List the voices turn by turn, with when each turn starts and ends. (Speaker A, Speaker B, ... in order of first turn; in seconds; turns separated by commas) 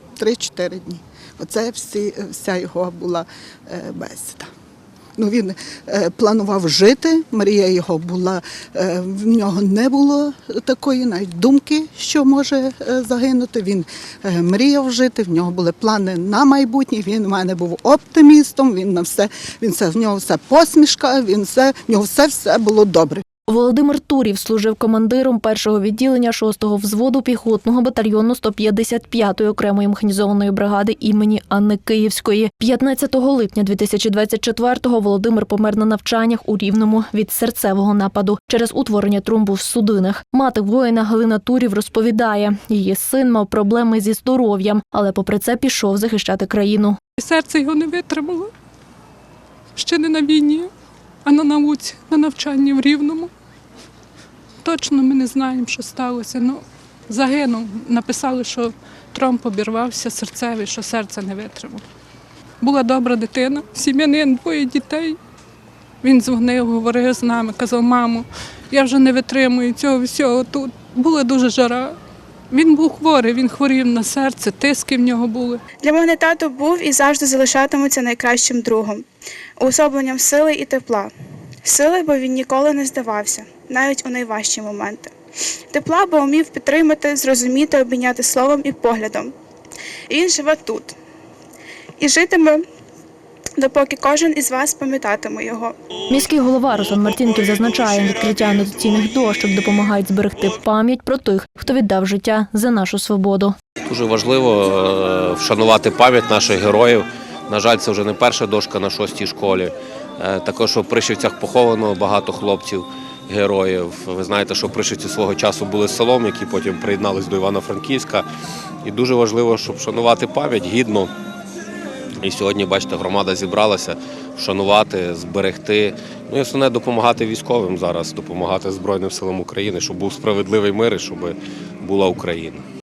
Speaker A: 0.2-4.5, Speaker A: 5.2-23.2, Speaker B: 23.5-47.0, Speaker C: 47.2-48.5, Speaker C: 49.8-50.7, Speaker C: 51.2-53.3, Speaker C: 54.6-61.8, Speaker C: 62.6-65.2, Speaker C: 66.0-72.0, Speaker C: 72.5-75.6, Speaker D: 75.8-79.0, Speaker D: 79.6-81.1, Speaker D: 81.6-85.1, Speaker D: 85.7-89.3, Speaker D: 90.1-90.9, Speaker D: 92.0-92.6, Speaker D: 93.6-95.7, Speaker B: 96.1-103.5, Speaker E: 103.8-118.3, Speaker E: 118.8-121.1, Speaker E: 122.2-132.6